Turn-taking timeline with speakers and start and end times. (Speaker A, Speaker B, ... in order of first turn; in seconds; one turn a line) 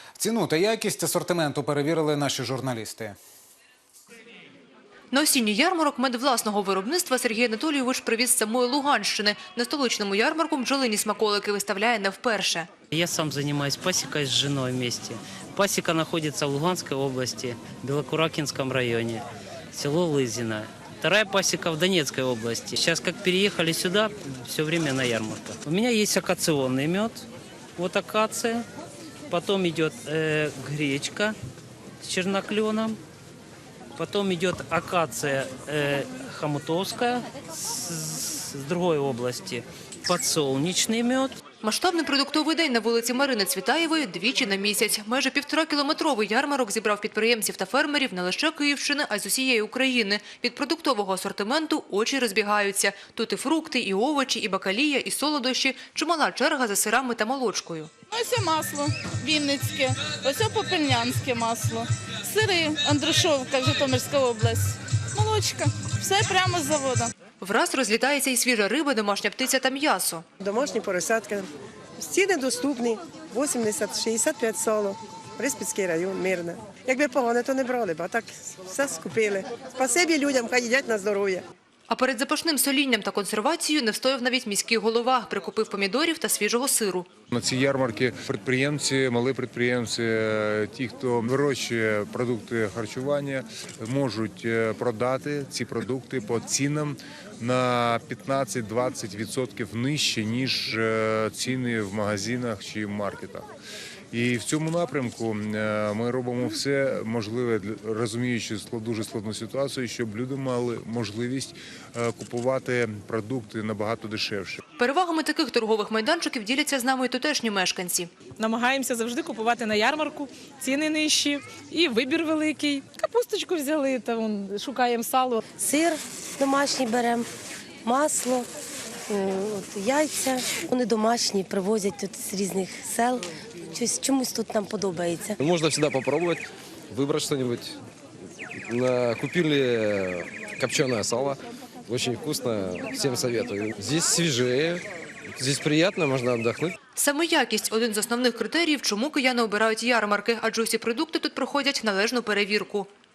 Speaker A: 0.2-3.2
Speaker B: 5.1-12.7
Speaker C: 12.9-27.2
Speaker C: 27.8-28.6
Speaker C: 29.3-31.4
Speaker C: 32.0-33.0
Speaker C: 34.0-41.4
Speaker B: 41.6-57.9
Speaker D: 58.1-67.1
Speaker B: 67.4-70.2
Speaker E: 70.4-81.5
Speaker B: 81.9-87.1
Speaker F: 87.3-103.5
Speaker F: 104.1-114.6
Speaker B: 114.8-118.1
Speaker G: 118.4-125.4
Speaker H: 125.6-127.3
Speaker H: 127.8-128.5
Speaker H: 129.1-135.4
Speaker I: 135.4-137.8
Speaker I: 138.6-144.8
Speaker I: 145.4-146.8
Speaker B: 147.0-152.9